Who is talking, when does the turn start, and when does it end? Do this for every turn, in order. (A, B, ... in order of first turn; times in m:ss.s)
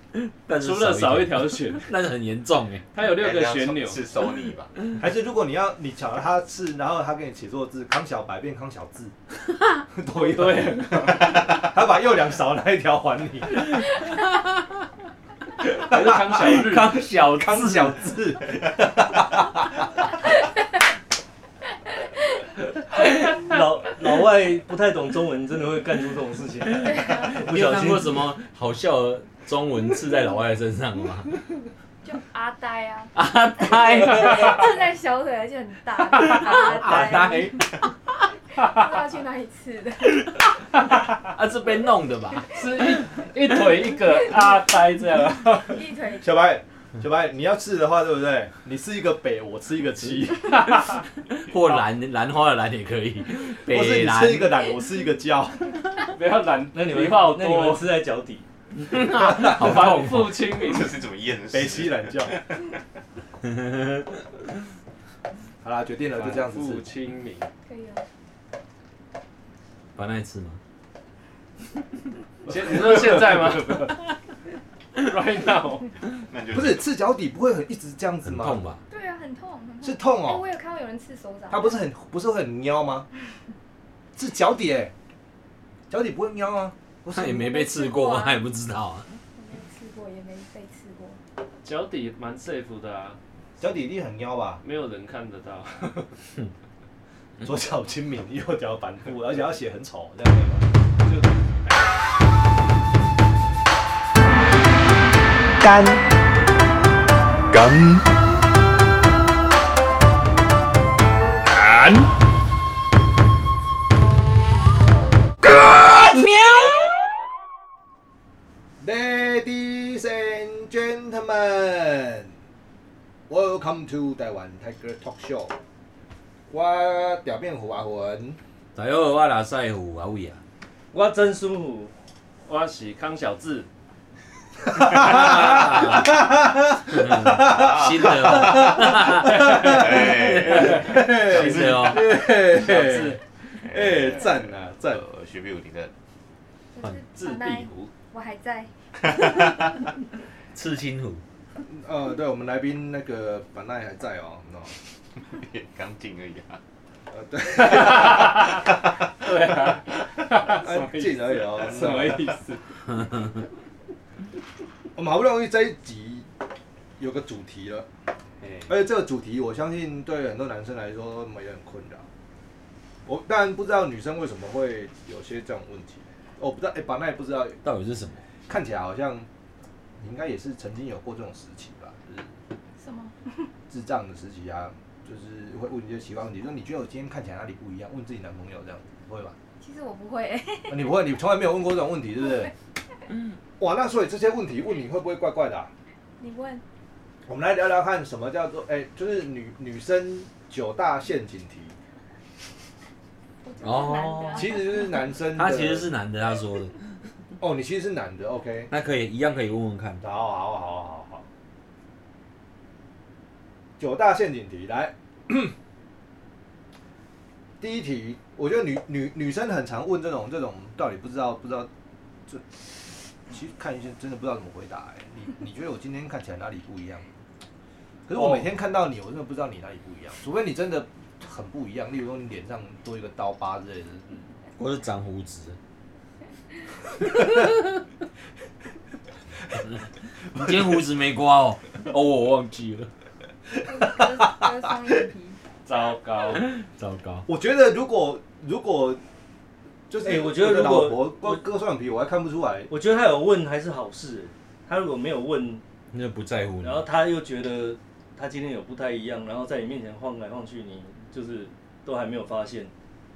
0:00.1-0:02.9 A
0:00.6-0:01.9 B
0:02.9-0:04.0 B
0:03.0-0:04.8 C
0:05.0-0:09.1 D
0:09.9-0:13.8 D
0:10.2-0:11.5 B
0:15.7-0:17.0 B
0:15.9-0:19.8 D
0:16.3-0:18.0 A
0:23.2-0:28.2 E
0:26.9-0:27.4 F
0:27.0-0:31.4 A
0:32.0-0:37.8 F
0:33.1-0:34.7 A
0:36.2-0:37.7 A
0:38.5-0:40.4 F
0:41.2-0:42.6 A
0:42.5-0:45.9 B
0:45.6-0:46.3 F
0:46.2-0:50.7 D
0:51.4-0:54.6 A
0:53.7-0:55.8 D
0:56.1-0:57.9 B
0:56.7-0:58.5 E
0:58.8-1:00.4 A
0:58.9-1:01.0 B
1:00.4-1:02.6 C
1:01.5-1:02.4 D
1:03.4-1:04.0 A
1:05.6-1:06.9 D
1:06.1-1:07.5 B
1:07.6-1:08.0 F
1:10.0-1:10.6 A
1:12.5-1:14.0 B
1:12.5-1:13.2 D
1:15.0-1:15.9 B
1:16.3-1:16.8 C
1:16.5-1:18.6 D
1:18.2-1:18.8 A
1:18.9-1:21.8 F
1:19.8-1:20.4 D
1:21.5-1:23.1 D
1:24.2-1:24.9 D
1:25.9-1:27.5 D
1:27.1-1:29.2 A
1:27.3-1:28.4 F
1:29.4-1:31.2 F
1:31.6-1:33.2 B
1:33.6-1:34.6 D
1:34.6-1:36.1 B
1:37.4-1:41.2 D
1:45.6-1:46.0 D
1:47.6-1:48.0 D
1:55.9-1:56.9 A
1:58.8-2:02.3 D
2:03.3-2:05.5 D
2:06.5-2:08.4 D
2:08.8-2:10.4 A
2:10.9-2:11.9 E
2:12.4-2:13.7 B
2:14.7-2:25.0 D
2:14.9-2:16.1 A
2:16.9-2:22.1 A
2:17.5-2:18.6 C
2:19.5-2:21.9 C
2:20.6-2:21.0 B
2:22.4-2:23.2 B
2:23.6-2:25.9 C
2:26.7-2:28.7 F
2:30.5-2:31.2 A
2:31.6-2:34.8 D
2:35.2-2:36.6 C
2:37.1-2:38.6 D
2:37.6-2:38.6 B
2:39.2-2:42.6 B
2:40.4-2:42.3 D
2:44.9-2:46.3 D
2:47.0-2:47.9 D
2:48.7-2:52.1 D
2:53.1-2:57.6 D
2:57.6-2:58.2 A
2:58.5-2:59.3 D
3:00.0-3:02.3 D
3:02.8-3:03.5 F
3:03.7-3:09.4 D
3:09.6-3:10.9 F
3:10.7-3:12.5 D
3:13.6-3:15.7 D
3:16.2-3:16.6 F
3:17.3-3:21.8 D
3:23.4-3:24.9 F
3:23.6-3:24.4 A
3:24.3-3:25.9 D
3:25.3-3:26.8 A
3:27.4-3:28.7 D
3:28.7-3:30.0 A
3:30.0-3:31.3 D
3:33.8-3:35.5 D
3:37.6-3:41.7 D
3:43.3-3:47.0 D
3:48.1-3:54.2 D
3:54.6-3:55.6 A
4:00.3-4:02.9 A
4:03.6-4:05.4 F
4:05.6-4:06.4 B
4:06.5-4:07.3 A
4:07.3-4:09.0 D
4:09.9-4:12.7 D
4:10.0-4:11.4 E
4:12.7-4:15.6 E
4:15.9-4:16.9 A
4:16.6-4:22.7 E